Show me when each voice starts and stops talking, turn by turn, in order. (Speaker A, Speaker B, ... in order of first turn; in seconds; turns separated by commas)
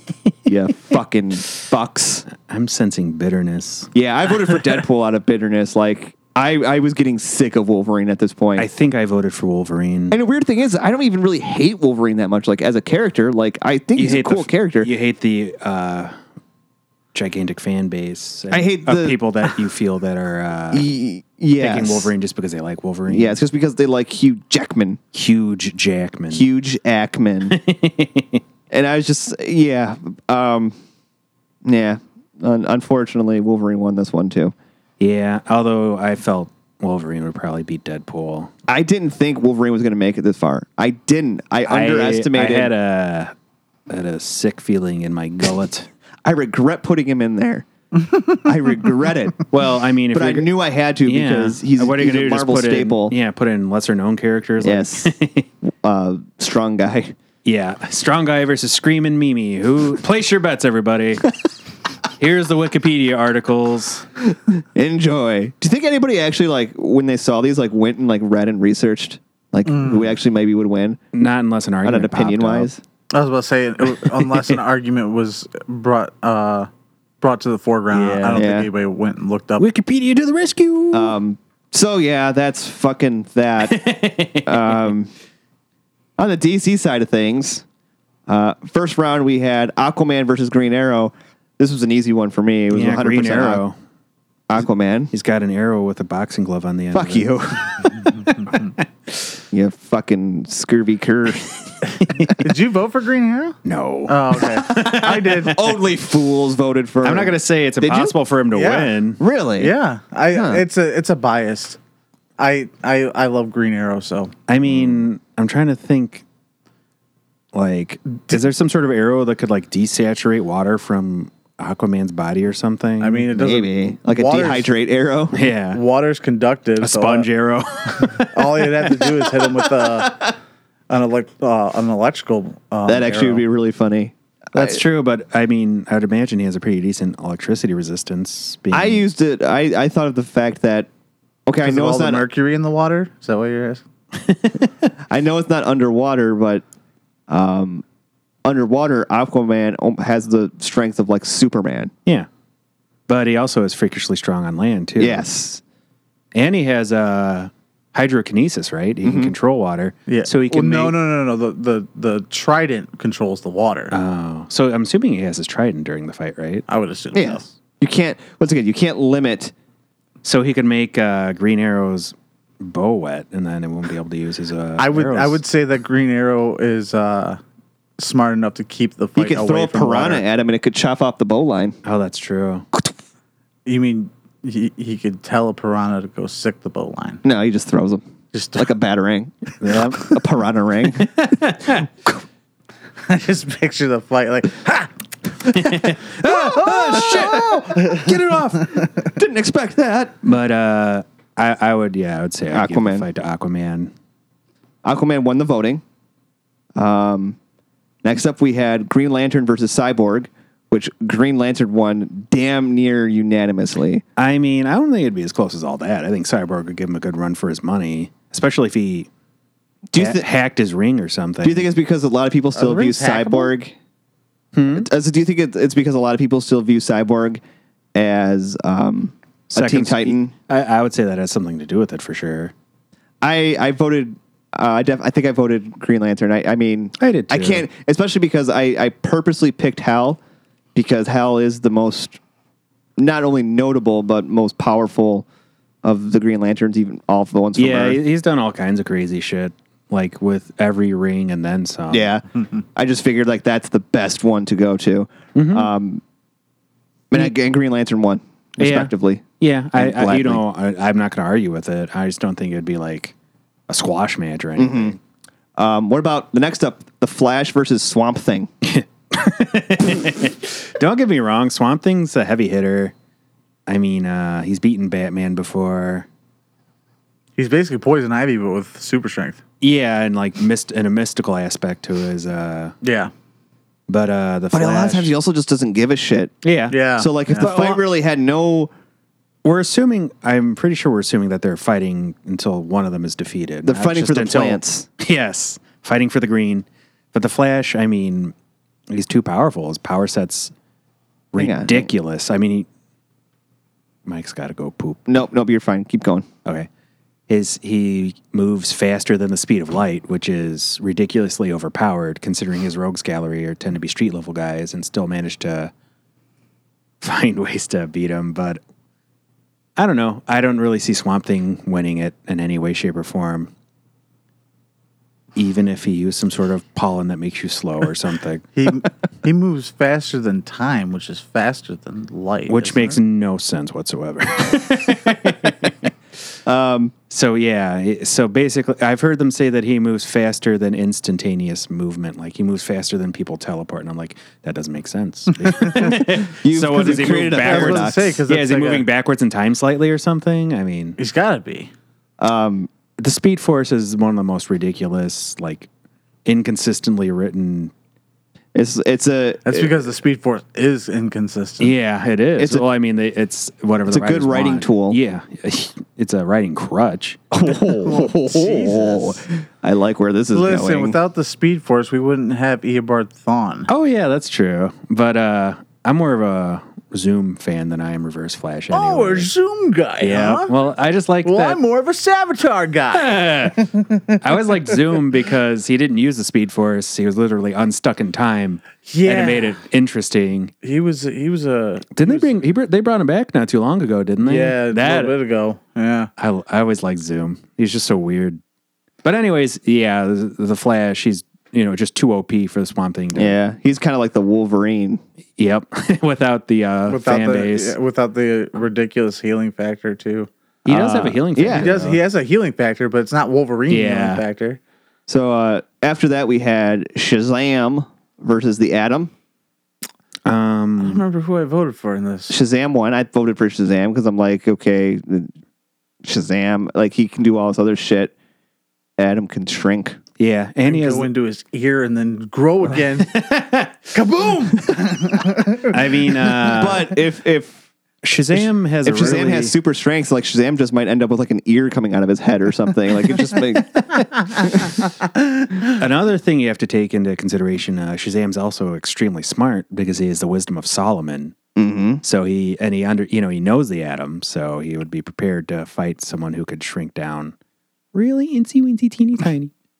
Speaker A: 0.5-2.2, Speaker B: 2.3-3.9, Speaker A: 3.9-8.7, Speaker B: 8.6-10.2, Speaker A: 10.1-14.9, Speaker B: 13.9-16.1, Speaker B: 17.1-20.9, Speaker A: 18.5-19.5, Speaker A: 20.7-22.1, Speaker B: 21.6-23.4, Speaker A: 23.1-25.0, Speaker B: 25.1-26.4, Speaker A: 26.3-27.6, Speaker B: 27.5-28.4, Speaker A: 28.7-30.7, Speaker A: 31.6-34.5, Speaker B: 35.0-38.5, Speaker A: 38.7-42.7, Speaker B: 41.6-43.3, Speaker B: 43.9-45.9, Speaker A: 46.2-47.6, Speaker A: 48.4-49.4, Speaker B: 49.5-50.5, Speaker A: 50.1-53.1, Speaker B: 51.0-55.5, Speaker A: 54.6-55.1, Speaker A: 55.7-57.1, Speaker B: 57.4-61.3, Speaker B: 62.2-64.0, Speaker A: 64.3-71.0, Speaker C: 69.7-70.1, Speaker B: 71.1-72.7, Speaker A: 71.8-72.8, Speaker C: 73.1-76.7, Speaker B: 74.0-74.6, Speaker C: 77.2-79.7, Speaker B: 77.9-78.5, Speaker A: 78.3-78.7, Speaker B: 79.6-81.2, Speaker A: 80.9-83.8, Speaker B: 83.6-84.9, Speaker A: 84.5-85.1, Speaker A: 86.2-87.6, Speaker A: 88.3-93.6, Speaker B: 92.7-93.7, Speaker A: 94.5-95.1, Speaker B: 95.1-98.8, Speaker A: 96.9-97.9, Speaker A: 99.5-101.5, Speaker B: 102.0-102.4, Speaker C: 102.4-105.6, Speaker B: 103.6-105.5, Speaker A: 105.1-108.1, Speaker B: 107.0-109.2, Speaker C: 108.5-108.9, Speaker A: 109.2-109.7, Speaker C: 109.6-111.8, Speaker A: 110.3-110.6, Speaker C: 112.4-114.3, Speaker B: 114.5-116.2, Speaker B: 117.5-123.5, Speaker C: 123.0-124.7, Speaker A: 123.4-125.3, Speaker B: 125.3-125.8, Speaker C: 125.7-127.3, Speaker B: 126.8-128.9, Speaker C: 128.2-130.3, Speaker C: 130.9-133.4, Speaker A: 132.8-134.8, Speaker B: 134.5-139.0, Speaker A: 138.7-140.9, Speaker A: 141.5-142.2, Speaker C: 141.6-143.8, Speaker B: 144.2-144.9, Speaker A: 145.1-146.6, Speaker A: 147.3-147.8, Speaker A: 148.4-151.9, Speaker B: 153.1-155.2, Speaker A: 155.0-155.6, Speaker B: 156.3-160.9, Speaker A: 159.0-159.3, Speaker C: 160.1-163.9, Speaker B: 163.9-166.6, Speaker C: 166.7-167.5, Speaker A: 167.1-169.5, Speaker B: 170.2-175.4, Speaker C: 174.8-177.4, Speaker C: 178.0-180.2, Speaker A: 179.2-181.8, Speaker B: 181.8-182.7, Speaker C: 183.7-187.2, Speaker A: 187.2-188.0, Speaker C: 188.3-188.7, Speaker A: 188.6-191.3, Speaker B: 189.6-190.1, Speaker B: 191.0-191.9, Speaker C: 193.1-194.9, Speaker C: 195.5-198.1, Speaker B: 195.5-198.7, Speaker A: 196.5-197.4, Speaker A: 199.0-200.2, Speaker B: 200.2-203.9, Speaker A: 202.5-203.1, Speaker A: 204.8-205.8, Speaker A: 206.8-207.4, Speaker A: 208.0-214.0, Speaker B: 214.2-219.1, Speaker A: 219.9-220.2, Speaker B: 219.9-221.7, Speaker A: 221.4-223.7, Speaker C: 222.5-223.5, Speaker B: 224.5-224.9, Speaker A: 224.7-227.4, Speaker A: 227.9-230.3, Speaker B: 229.5-232.5, Speaker A: 233.2-240.2, Speaker B: 237.0-237.7, Speaker A: 240.7-242.2, Speaker A: 243.0-245.2, Speaker A: 245.8-248.0, Speaker B: 247.6-252.1, Speaker A: 251.9-252.2, Speaker A: 252.7-256.0, Speaker B: 255.3-255.7, Speaker A: 257.1-260.4, Speaker B: 258.6-263.1, Speaker B: 263.7-265.0, Speaker A: 264.6-264.9, Speaker A: 265.6-268.5, Speaker B: 268.6-272.9, Speaker B: 273.7-276.1, Speaker C: 277.4-279.4, Speaker B: 279.6-282.8, Speaker C: 282.8-283.1, Speaker B: 283.9-285.1, Speaker A: 284.5-286.3, Speaker B: 286.4-286.8, Speaker C: 286.7-287.5, Speaker A: 286.9-288.7, Speaker B: 287.3-287.8, Speaker B: 289.4-298.3, Speaker A: 293.6-294.9, Speaker B: 298.9-300.5, Speaker B: 301.3-302.7, Speaker A: 301.4-301.9, Speaker B: 304.1-305.1, Speaker A: 305.1-306.2, Speaker B: 307.3-315.7, Speaker B: 317.0-318.6, Speaker B: 319.8-323.5, Speaker B: 325.4-328.5, Speaker C: 328.6-333.0, Speaker B: 332.5-335.9, Speaker A: 336.4-336.9, Speaker B: 337.1-351.0, Speaker C: 345.4-345.8, Speaker A: 346.1-348.2, Speaker C: 347.3-348.9, Speaker C: 351.0-351.7, Speaker A: 352.2-352.7, Speaker B: 353.0-355.7, Speaker B: 356.2-357.7, Speaker A: 358.5-359.7, Speaker C: 359.4-361.7, Speaker B: 361.6-367.2, Speaker A: 362.4-362.6, Speaker A: 363.9-365.0, Speaker A: 367.3-371.0, Speaker C: 367.4-369.2, Speaker C: 370.3-373.7, Speaker B: 373.7-379.3, Speaker C: 378.7-380.6, Speaker B: 380.0-381.6, Speaker C: 381.2-384.8, Speaker B: 382.9-383.6, Speaker B: 384.2-390.5, Speaker C: 388.9-389.6, Speaker C: 390.6-392.4, Speaker B: 391.9-395.1, Speaker C: 394.2-396.1, Speaker B: 396.2-398.4, Speaker B: 399.0-403.4, Speaker A: 403.1-405.0, Speaker B: 405.4-407.7, Speaker C: 406.9-410.3, Speaker B: 410.6-412.0, Speaker A: 410.7-411.7, Speaker C: 411.5-414.6, Speaker B: 413.7-414.2, Speaker A: 415.1-419.1, Speaker B: 420.2-421.0, Speaker C: 420.8-422.4, Speaker A: 422.3-425.3, Speaker A: 426.0-428.1, Speaker A: 429.0-430.0, Speaker B: 430.2-431.1, Speaker C: 430.6-433.1, Speaker B: 433.0-433.9, Speaker C: 433.9-435.8, Speaker B: 435.6-436.9, Speaker A: 436.4-437.6, Speaker B: 438.0-439.5, Speaker A: 438.3-444.7, Speaker B: 444.4-444.7, Speaker B: 445.7-451.3, Speaker A: 451.6-452.0, Speaker B: 452.0-457.3, Speaker B: 457.9-459.5